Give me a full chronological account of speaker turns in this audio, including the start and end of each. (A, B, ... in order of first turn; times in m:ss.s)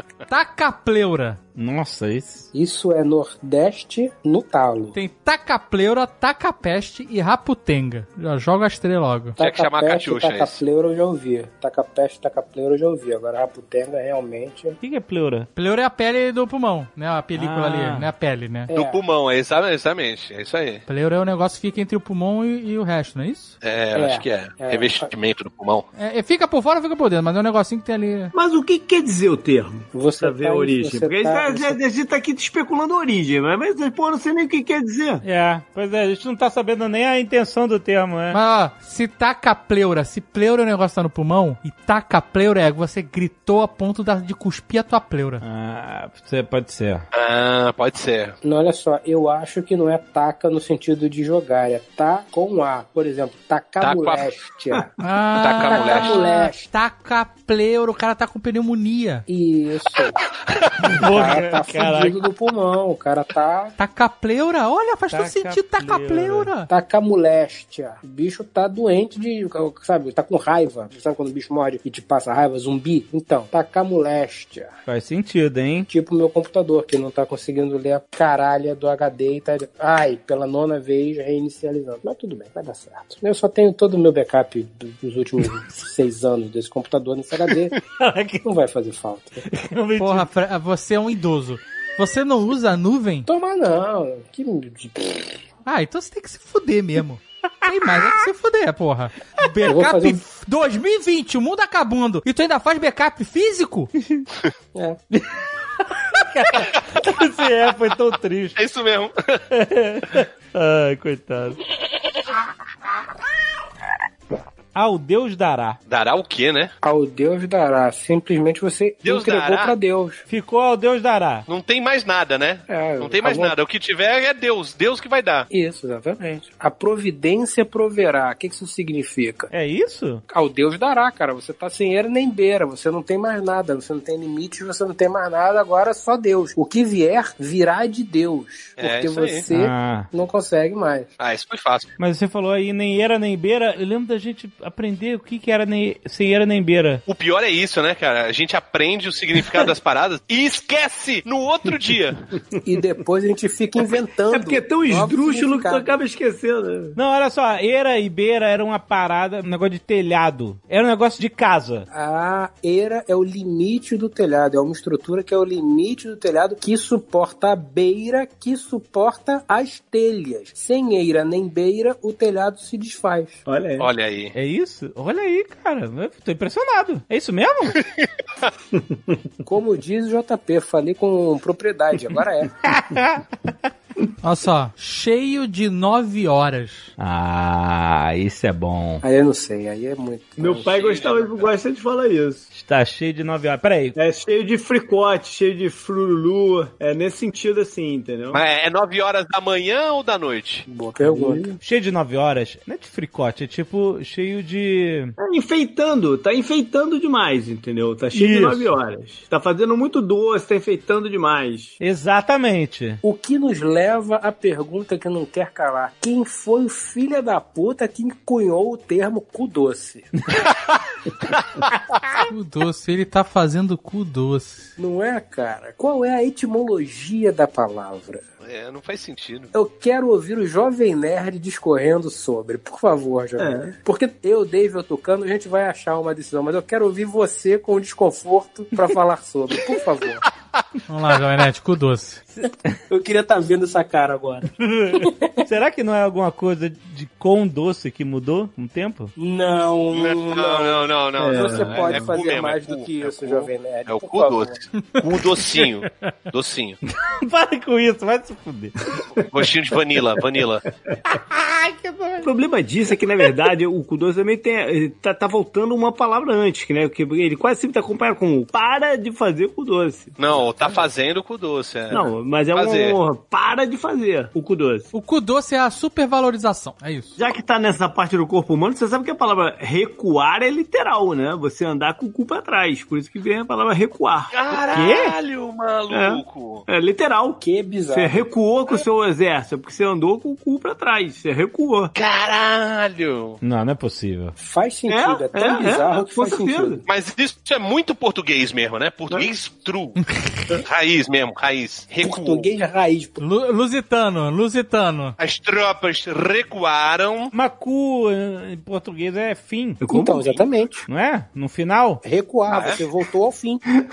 0:00.3-0:01.4 A
0:01.5-0:02.5 B
0:02.5-0:05.0 C
0:04.9-0:09.4 A
0:09.4-0:14.8 C
0:09.4-0:10.6 D
0:14.8-0:15.5 B
0:15.5-0:18.7 A
0:17.3-0:18.1 B
0:18.7-0:19.0 C
0:18.7-0:20.8 D
0:20.9-0:23.6 A
0:23.6-0:25.8 D
0:23.9-0:25.1 C
0:26.0-0:28.3 A
0:28.3-0:35.2 E
0:29.9-0:31.8 C
0:35.2-0:38.4 B
0:38.3-0:45.4 A
0:45.4-0:47.0 B
0:47.1-0:48.4 D
0:48.4-0:55.0 C
0:53.8-0:54.2 D
0:55.0-0:59.2 A
0:55.4-0:56.2 D
0:55.6-0:56.7 C
0:59.3-1:00.2 C
1:00.8-1:02.2 B
1:01.0-1:03.7 C
1:03.8-1:06.7 A
1:05.1-1:06.5 B
1:06.7-1:14.7 C
1:14.8-1:15.9 B
1:15.9-1:27.8 C
1:27.8-1:28.4 B
1:28.4-1:29.4 C
1:29.5-1:30.3 B
1:30.0-1:33.3 A
1:33.3-1:35.4 C
1:35.6-1:43.9 A
1:39.6-1:40.2 C
1:45.9-1:48.6 B
1:48.6-1:49.4 D
1:49.5-1:51.6 B
1:54.7-1:55.8 B
1:55.9-1:56.7 D
1:56.8-2:00.2 C
1:59.0-1:59.7 D
2:00.3-2:01.4 B
2:01.5-2:05.5 D
2:02.7-2:03.5 C
2:05.5-2:09.5 C
2:09.5-2:10.2 B
2:10.3-2:21.1 C
2:18.8-2:19.4 D
2:19.5-2:20.1 B
2:21.2-2:21.9 D
2:22.0-2:27.0 B
2:27.1-2:32.2 D
2:32.6-2:36.0 C
2:34.3-2:37.0 E
2:37.0-2:41.9 B
2:41.9-2:53.4 C
2:53.4-2:53.9 E
2:53.8-2:54.3 D
2:54.3-2:57.8 B
2:57.8-2:58.4 D
2:58.7-2:59.2 E
2:59.4-3:02.5 C
3:02.6-3:03.2 B
3:04.2-3:06.9 A
3:07.0-3:09.0 B
3:09.0-3:10.8 C
3:10.4-3:12.5 E
3:10.7-3:11.5 D
3:12.5-3:14.0 B
3:13.9-3:18.4 E
3:18.3-3:20.6 D
3:20.7-3:21.6 C
3:21.0-3:21.5 E
3:21.6-3:25.2 B
3:25.2-3:31.8 E
3:28.1-3:28.7 B
3:31.8-3:33.0 B
3:33.0-3:40.1 C
3:40.5-3:40.8 D
3:42.3-3:44.7 A
3:44.8-3:48.2 C
3:48.4-3:49.5 D
3:49.5-4:00.2 C
3:53.4-3:53.7 E
4:00.9-4:02.2 A
4:02.9-4:05.4 C
4:04.7-4:09.1 B
4:09.2-4:14.6 C
4:09.9-4:16.8 D
4:11.2-4:12.1 E
4:17.0-4:18.7 B
4:19.0-4:19.2 E
4:19.2-4:20.6 D
4:21.0-4:22.3 B
4:22.2-4:30.8 E
4:30.2-4:33.0 D
4:31.9-4:34.9 E
4:34.9-4:37.2 A
4:37.2-4:44.3 E
4:44.3-4:46.6 D
4:44.7-4:45.1 B
4:45.9-4:51.9 E
4:47.4-4:48.3 C
4:51.9-4:53.4 D
4:53.4-4:54.3 B
4:54.4-4:56.8 C
4:54.9-4:56.8 E
4:56.9-5:00.0 D
5:00.6-5:02.5 D
5:02.0-5:03.2 C
5:03.2-5:05.2 A
5:05.2-5:07.3 D
5:07.3-5:09.8 B
5:09.8-5:10.4 E
5:09.9-5:10.8 C
5:10.9-5:12.0 B
5:12.0-5:13.6 C
5:12.5-5:12.8 D